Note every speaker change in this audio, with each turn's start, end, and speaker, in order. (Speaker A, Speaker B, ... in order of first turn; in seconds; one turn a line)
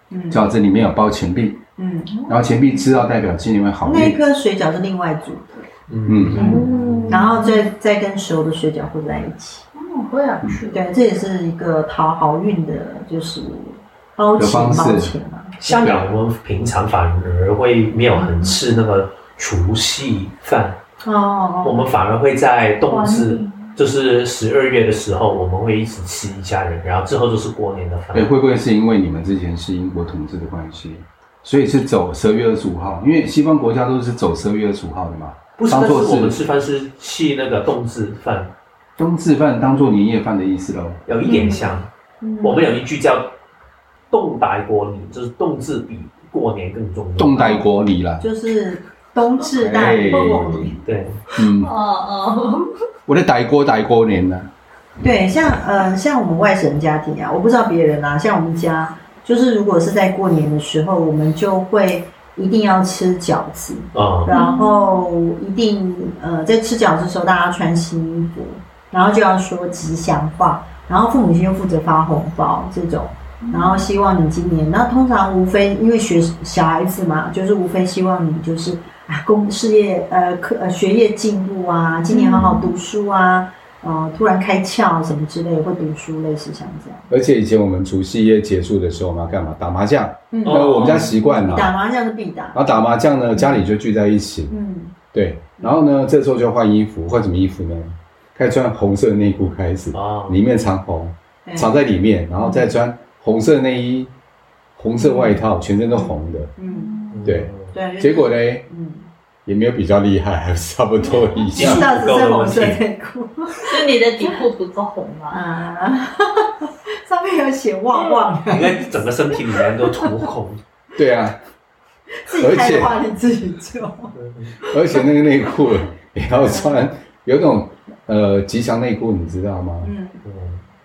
Speaker A: 0.1-0.5
Speaker B: 0.3-1.6
Speaker A: 1.8-2.2
Speaker C: 2.1-2.8
Speaker B: 2.3-4.2
Speaker A: 3.8-5.7
Speaker D: 5.9-7.2
Speaker B: 6.1-6.6
Speaker A: 6.3-9.6
Speaker C: 6.3-7.7
Speaker C: 9.7-10.8
Speaker A: 10.7-15.5
Speaker B: 14.4-15.1
Speaker D: 15.6-20.8
Speaker B: 15.6-16.1
Speaker A: 21.0-21.9
Speaker D: 21.6-28.3
Speaker C: 22.9-23.7
Speaker B: 28.1-36.4
Speaker D: 35.6-38.5
Speaker B: 39.0-41.0
Speaker D: 41.0-41.9
Speaker C: 41.2-41.7
Speaker A: 42.2-42.7
Speaker D: 42.4-43.3
Speaker D: 44.1-47.5
Speaker B: 47.2-48.3
Speaker A: 48.2-50.8
Speaker B: 49.5-50.7
Speaker C: 49.8-50.2
Speaker D: 50.8-51.2
Speaker B: 51.4-51.7
Speaker C: 51.6-52.6
Speaker B: 53.1-54.5
Speaker A: 55.0-87.1
Speaker D: 63.9-64.3
Speaker C: 64.3-65.0
Speaker C: 73.4-73.8
Speaker C: 82.1-82.7
Speaker B: 87.1-91.7
Speaker A: 90.3-93.7
Speaker D: 90.4-91.1
Speaker B: 92.5-94.5
Speaker A: 94.5-94.9
Speaker B: 95.1-104.1
Speaker D: 99.9-100.4
Speaker A: 101.4-101.7
Speaker A: 102.3-102.7
Speaker B: 104.8-106.5
Speaker A: 104.9-107.0
Speaker C: 106.6-107.3
Speaker D: 107.1-107.7
Speaker B: 107.2-108.7
Speaker A: 107.7-109.1
Speaker B: 109.5-111.9
Speaker A: 111.1-114.4
Speaker D: 111.1-112.8
Speaker C: 113.6-115.4
Speaker A: 115.3-118.9
Speaker C: 117.9-118.3
Speaker D: 118.5-120.6
Speaker A: 119.8-120.1
Speaker B: 121.0-121.4
Speaker A: 122.2-124.1
Speaker B: 122.4-123.0
Speaker D: 124.1-124.5
Speaker B: 124.7-129.9
Speaker A: 126.3-126.9
Speaker A: 129.8-130.2
Speaker D: 130.2-130.6